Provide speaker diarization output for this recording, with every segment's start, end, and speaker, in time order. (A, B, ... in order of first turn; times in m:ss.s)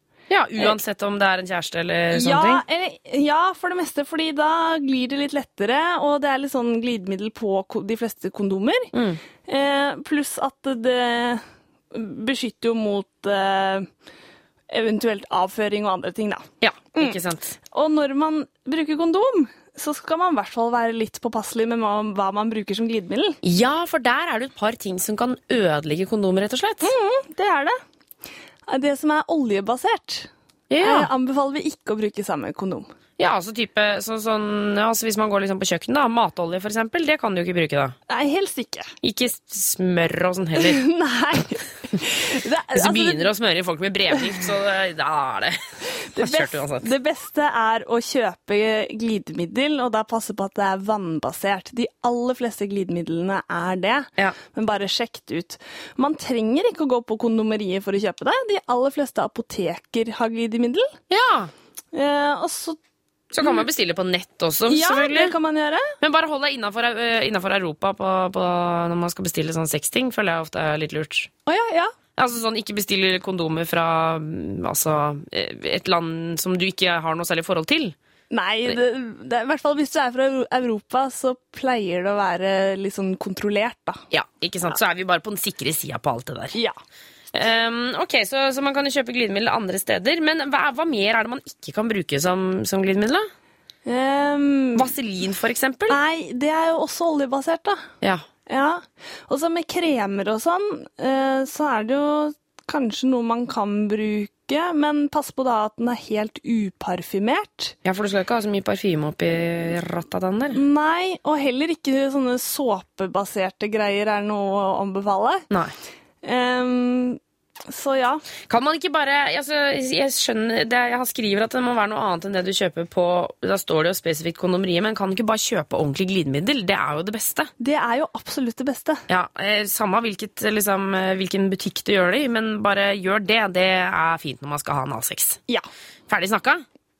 0:00.3-0:02.6 A
0:02.1-0:08.9 B
0:08.9-0:09.2 A
0:09.5-0:13.9 B
0:14.7-0:16.5 B
0:16.6-0:17.6 A
0:17.7-0:23.4 B
0:23.4-0:26.9 A
0:26.8-0:27.8 B
0:28.7-0:30.3 B
0:30.7-0:31.1 A
0:30.8-0:32.9 B
0:33.2-0:38.0 A
0:38.1-0:38.9 B
0:39.0-0:40.8 A
0:40.6-0:43.3 B
0:42.8-0:45.6 A
0:46.2-0:46.9 A
0:46.2-1:00.9 B
1:01.1-1:01.5 A
1:01.9-1:02.8 B
1:03.3-1:05.4 A
1:03.4-1:03.6 B
1:04.7-1:05.9 B
1:06.0-1:11.3 A
1:11.5-1:11.9 B
1:12.2-1:18.0 A
1:18.3-1:24.0 B
1:24.1-1:26.6 A
1:27.3-1:33.3 A
1:33.9-1:34.9 B
1:34.8-1:36.0 A
1:35.9-1:37.8 B
1:38.5-1:47.8 B
1:47.8-1:50.6 A
1:50.5-1:55.4 B
1:56.2-1:58.2 B
1:58.5-2:07.5 A
2:07.6-2:09.0 B
2:09.1-2:15.4 A
2:16.1-2:16.6 A